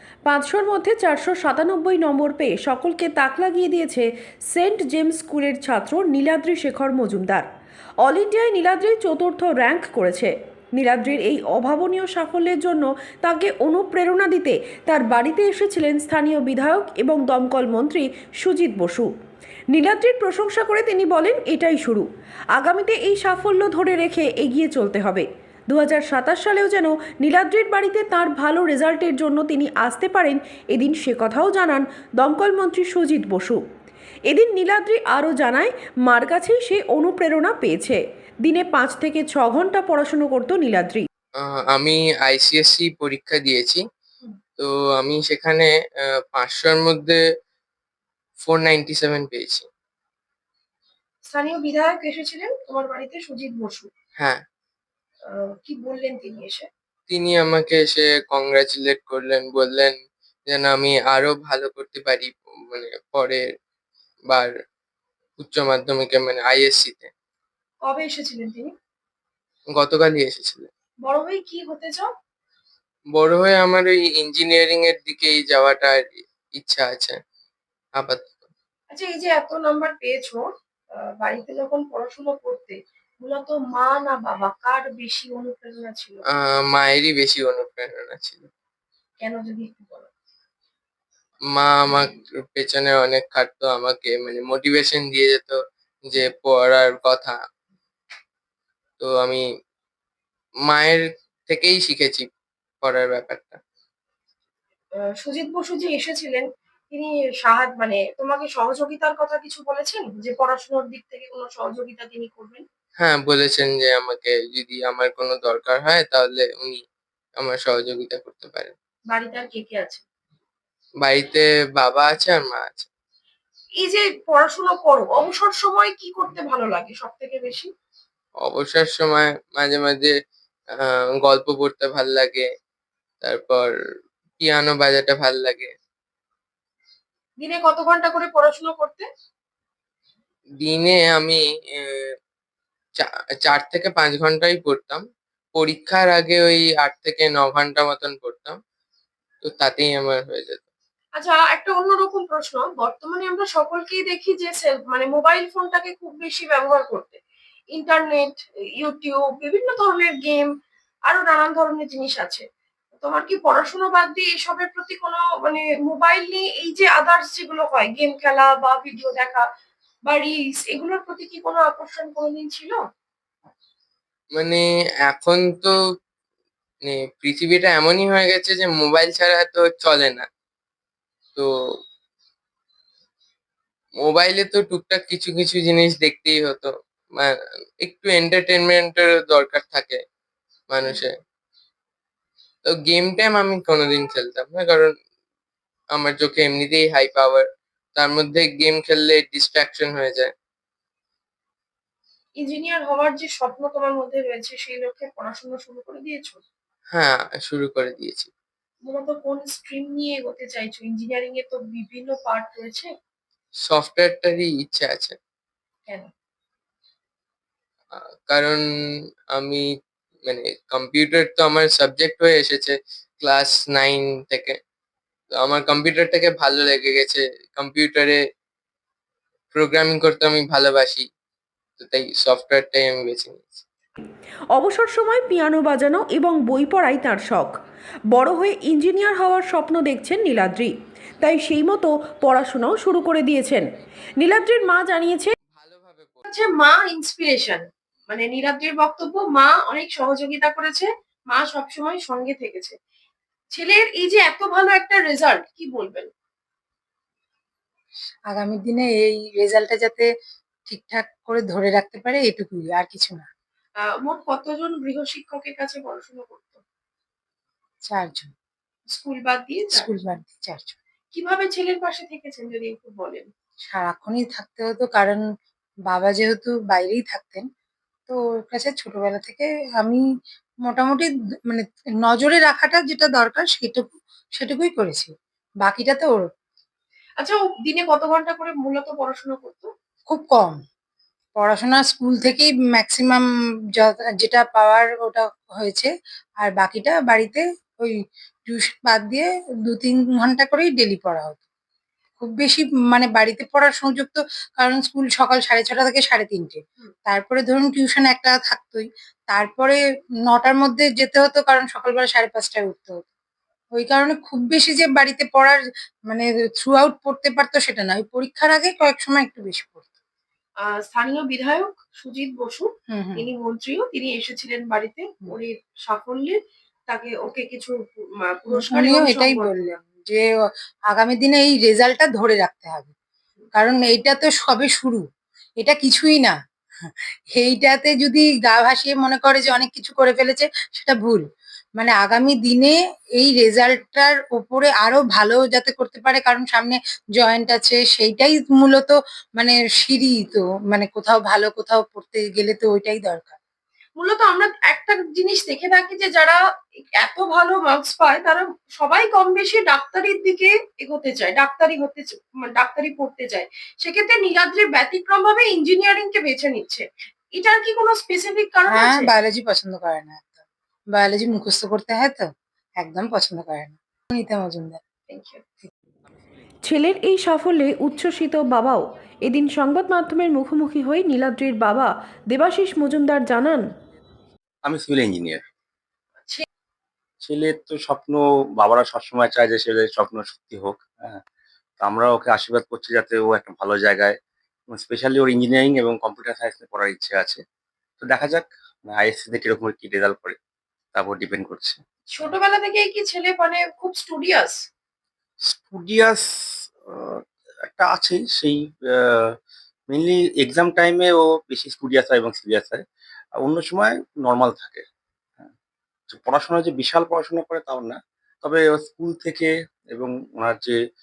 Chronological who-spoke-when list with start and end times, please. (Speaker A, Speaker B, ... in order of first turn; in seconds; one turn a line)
Speaker A: 0.3-7.5
Speaker A: 8.0-19.1
Speaker A: 19.7-33.6
Speaker A: 34.3-41.1
Speaker B: 41.4-43.8
Speaker B: 44.6-45.7
Speaker B: 46.3-47.2
Speaker B: 48.4-49.7
Speaker C: 51.3-53.9
Speaker C: 55.3-56.7
Speaker B: 57.1-60.0
Speaker B: 60.5-63.4
Speaker B: 65.4-67.1
Speaker C: 67.8-68.7
Speaker B: 69.7-70.7
Speaker C: 71.0-72.1
Speaker B: 73.2-77.2
Speaker B: 78.0-78.3
Speaker C: 78.9-86.2
Speaker B: 86.3-88.5
Speaker C: 89.2-90.1
Speaker B: 91.5-97.4
Speaker B: 99.0-99.4
Speaker B: 100.7-102.3
Speaker B: 102.8-103.6
Speaker C: 105.2-112.6
Speaker B: 113.0-116.8
Speaker B: 117.4-118.7
Speaker C: 119.1-120.0
Speaker B: 121.0-122.9
Speaker C: 123.8-127.7
Speaker B: 128.4-130.1
Speaker B: 130.8-132.5
Speaker B: 133.2-133.7
Speaker B: 134.4-135.7
Speaker C: 137.4-139.1
Speaker B: 140.6-142.1
Speaker B: 143.0-148.6
Speaker B: 149.4-150.7
Speaker C: 151.2-157.2
Speaker C: 157.7-160.5
Speaker C: 161.1-162.4
Speaker C: 163.0-169.4
Speaker C: 170.1-172.8
Speaker B: 174.3-175.7
Speaker B: 176.8-180.3
Speaker B: 184.0-190.0
Speaker B: 190.7-191.1
Speaker B: 192.7-194.9
Speaker B: 195.9-200.3
Speaker C: 202.4-206.4
Speaker B: 206.9-208.3
Speaker C: 208.8-212.9
Speaker B: 213.7-215.2
Speaker B: 217.9-218.6
Speaker B: 219.3-219.7
Speaker B: 220.3-224.6
Speaker B: 225.4-228.2
Speaker B: 229.5-231.1
Speaker B: 231.8-233.6
Speaker A: 234.5-237.5
Speaker A: 238.1-245.3
Speaker B: 245.5-246.3
Speaker C: 246.3-252.8
Speaker C: 253.5-256.1
Speaker D: 258.3-260.1
Speaker D: 260.7-263.3
Speaker C: 263.8-266.6
Speaker D: 267.9-268.3
Speaker C: 268.9-269.9
Speaker D: 269.7-270.8
Speaker C: 271.1-273.3
Speaker D: 273.7-275.2
Speaker D: 275.9-277.5
Speaker D: 278.1-280.0
Speaker D: 280.6-283.8
Speaker D: 284.4-285.1
Speaker D: 285.6-286.2
Speaker C: 287.2-289.7
Speaker D: 290.1-290.6
Speaker D: 291.4-293.2
Speaker D: 293.8-297.9
Speaker D: 298.5-301.4
Speaker D: 302.2-313.0
Speaker D: 313.7-319.9
Speaker C: 320.6-326.4
Speaker D: 322.9-323.3
Speaker C: 326.9-329.8
Speaker D: 328.5-330.2
Speaker D: 330.9-332.9
Speaker D: 333.6-335.0
Speaker D: 335.6-336.3
Speaker D: 336.9-341.2
Speaker D: 341.8-353.4
Speaker C: 354.0-356.4
Speaker C: 357.0-369.1
Speaker D: 368.7-370.4
Speaker D: 370.9-374.8
Speaker C: 375.1-375.4
Speaker A: 376.6-383.6
Speaker E: 384.6-385.4
Speaker C: 386.2-386.4
Speaker E: 387.2-391.2
Speaker E: 391.8-394.2
Speaker E: 394.7-397.4
Speaker E: 398.0-400.4
Speaker E: 400.9-401.8
Speaker C: 402.1-404.6
Speaker E: 405.5-409.4
Speaker E: 409.9-412.8
Speaker E: 413.4-414.8
Speaker E: 416.1-420.8